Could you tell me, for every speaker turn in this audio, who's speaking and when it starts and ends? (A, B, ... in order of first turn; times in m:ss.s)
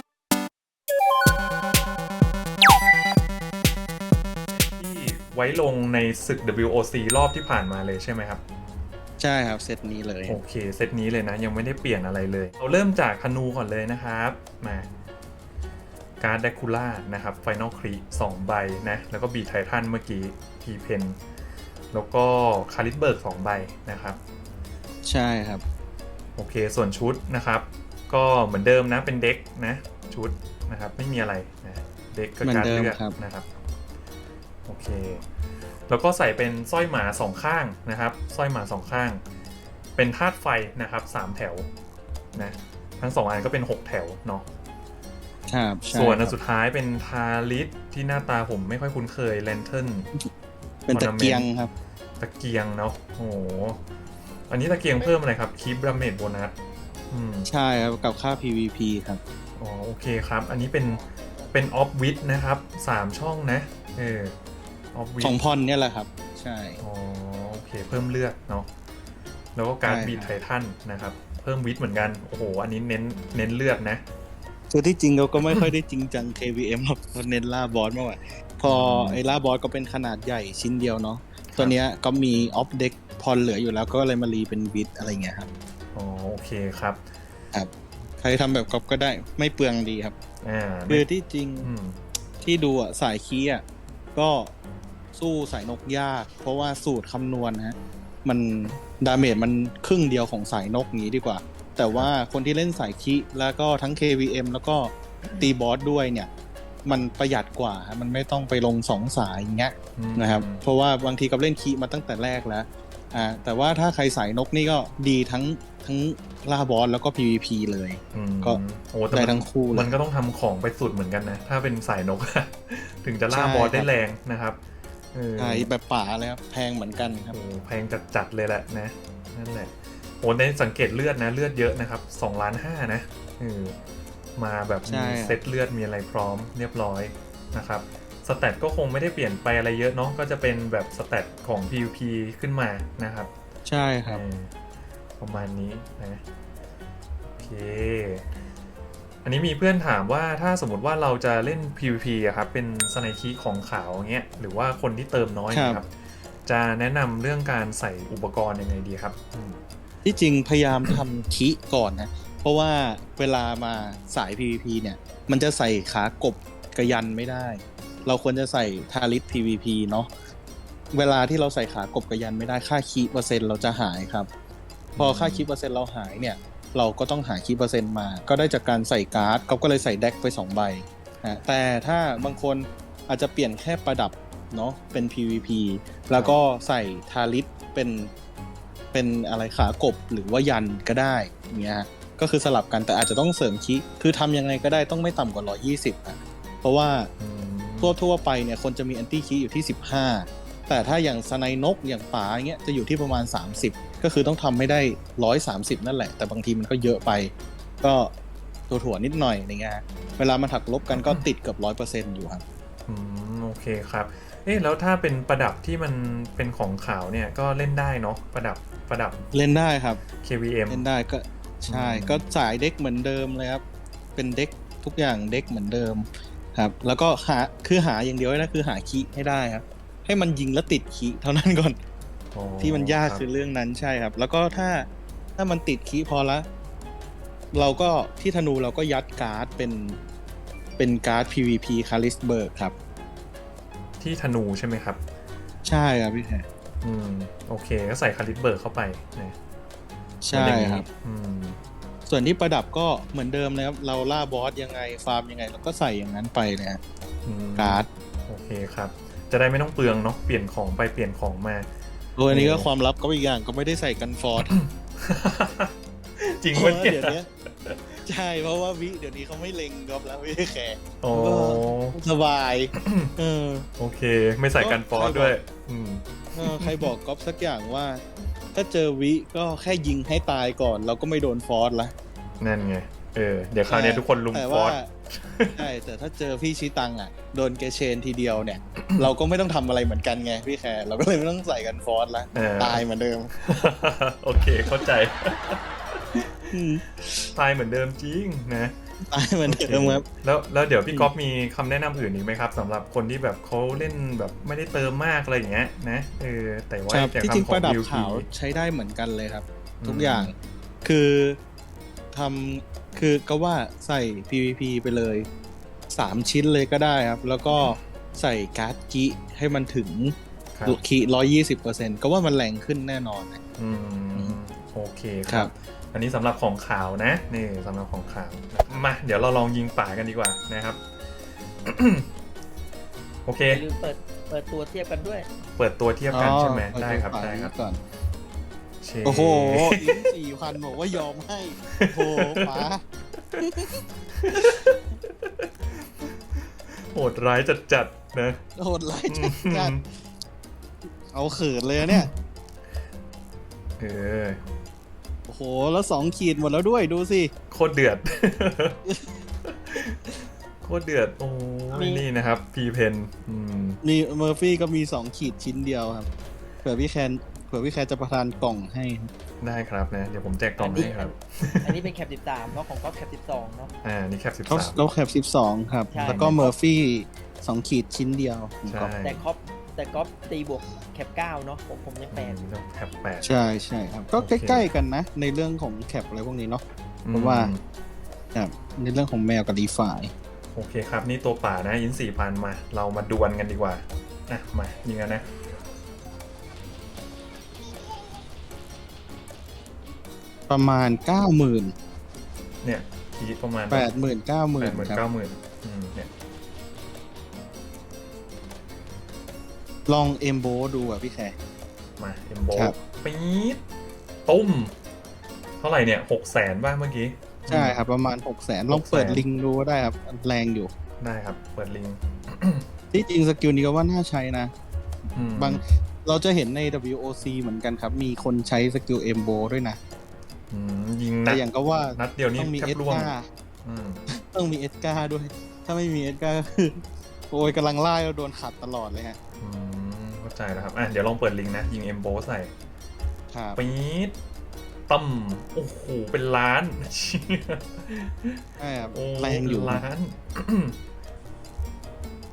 0:04.5-0:08.4 A
0:09.2-0:10.4 B
0:10.2-0:14.9 A
0:16.2-0:21.2 A
0:21.9-0:24.2 A
0:25.0-0:25.6 B
0:26.4-0:33.5 A
0:32.4-0:33.2 B
0:34.6-0:35.2 A
0:35.9-0:39.2 A
0:40.0-0:41.7 A
0:42.3-0:44.4 A
0:45.5-0:46.3 B
0:45.9-0:50.1 A
0:50.8-0:51.7 B
0:50.9-0:51.5 A
0:52.2-0:53.8 A
0:54.5-0:56.5 A
0:57.1-0:57.5 A
0:57.4-0:59.2 B
0:59.6-1:04.3 A
1:04.9-1:05.4 A
1:05.2-1:06.8 B
1:06.8-1:08.7 A
1:09.5-1:14.0 A
1:09.8-1:10.3 B
1:14.7-1:25.5 B
1:18.6-1:19.2 A
1:21.5-1:21.8 A
1:25.9-1:27.0 A
1:28.2-1:30.1 B
1:30.4-1:31.0 A
1:30.9-1:31.7 B
1:31.6-1:32.0 A
1:32.4-1:33.6 B
1:34.1-1:34.5 B
1:35.1-1:46.3 B
1:46.8-1:59.9 B
1:50.0-1:50.6 A
1:58.1-2:04.6 A
2:03.3-2:03.9 B
2:05.1-2:05.7 A
2:05.4-2:07.4 B
2:07.3-2:13.8 A
2:14.4-2:23.3 A
2:14.9-2:15.4 B
2:23.6-2:24.2 B
2:24.0-2:24.5 A
2:25.2-2:26.2 A
2:27.4-2:28.2 A
2:29.2-2:35.9 A
2:35.5-2:35.8 B
2:36.4-2:39.6 A
2:40.0-2:50.1 B
2:50.9-2:54.3 B
2:55.0-2:55.5 A
2:55.0-3:08.1 B
3:08.9-3:17.1 B
3:17.2-3:18.0 A
3:17.8-3:28.1 B
3:28.7-3:32.4 B
3:32.9-3:39.2 A
3:39.3-3:40.0 B
3:40.2-3:40.8 A
3:40.7-3:43.6 B
3:41.6-3:42.2 A
3:44.2-3:51.8 B
3:52.3-3:53.2 A
3:52.6-3:56.5 B
3:57.5-4:00.0 B
4:00.8-4:02.7 B
4:04.0-4:05.0 A
4:05.6-4:06.4 B
4:06.8-4:09.4 A
4:10.2-4:10.8 B
4:10.3-4:11.6 A
4:12.1-4:16.8 B
4:17.2-4:21.7 A
4:17.6-4:17.9 B
4:22.2-4:24.5 B
4:22.3-4:22.7 A
4:24.4-4:28.0 A
4:26.5-4:27.3 B
4:28.0-4:33.7 B
4:31.0-4:32.0 A
4:32.8-4:33.1 A
4:33.8-4:36.9 A
4:34.6-4:35.4 B
4:36.3-4:38.0 B
4:38.5-4:41.9 B
4:42.4-4:45.6 A
4:43.7-4:44.9 B
4:45.6-4:53.3 B
4:52.3-4:56.5 A
4:56.5-4:57.3 B
4:57.3-4:58.7 A
4:59.1-5:00.0 B
4:59.4-5:08.3 A
5:06.9-5:11.4 B
5:09.8-5:10.3 A
5:12.1-5:15.3 B
5:15.9-5:23.4 B
5:20.5-5:20.8 A
5:23.6-5:30.8 A
5:31.6-5:32.1 A
5:33.2-5:33.6 A
5:33.5-5:35.3 C
5:35.5-5:37.5 A
5:36.1-5:37.8 B
5:38.8-5:40.1 A
5:39.0-5:42.8 B
5:41.7-5:42.6 A
5:43.4-5:43.8 B
5:44.2-5:46.1 A
5:46.7-5:48.4 A
5:48.6-5:49.8 B
5:49.1-5:49.8 A
5:51.1-5:52.1 B
5:53.8-5:54.4 A
5:55.3-5:57.3 B
5:57.5-5:58.8 A
5:59.5-6:00.0 A
6:00.6-6:03.8 A
6:01.7-6:02.0 C
6:03.8-6:06.1 B
6:06.6-6:09.1 B
6:09.4-6:11.9 A
6:10.6-6:13.7 C
6:13.8-6:14.8 A
6:14.5-6:18.9 B
6:15.9-6:16.5 C
6:16.0-6:16.5 A
6:18.7-6:19.2 A
6:19.0-6:22.4 C
6:22.1-6:23.3 A
6:23.2-6:27.5 B
6:24.2-6:24.7 A
6:27.0-6:27.6 A
6:28.3-6:30.1 B
6:30.5-6:35.3 A
6:40.5-6:41.7 B
6:42.6-6:43.9 A
6:43.7-6:45.0 B
6:44.6-6:46.1 A
6:49.9-6:51.4 B
6:52.0-6:53.6 A
6:54.2-6:54.7 A
6:55.6-6:57.8 A
6:57.5-7:00.7 B
6:58.7-6:59.2 A
7:01.0-7:02.6 A
7:02.9-7:04.5 B
7:05.1-7:05.6 A
7:05.4-7:09.8 B
7:10.5-7:13.1 A
7:11.2-7:13.3 B
7:13.6-7:14.0 A
7:14.1-7:19.2 B
7:19.4-7:22.5 A
7:23.3-7:23.6 B
7:23.5-7:24.2 A
7:24.9-7:28.4 A
7:28.6-7:29.8 B
7:28.9-7:30.8 A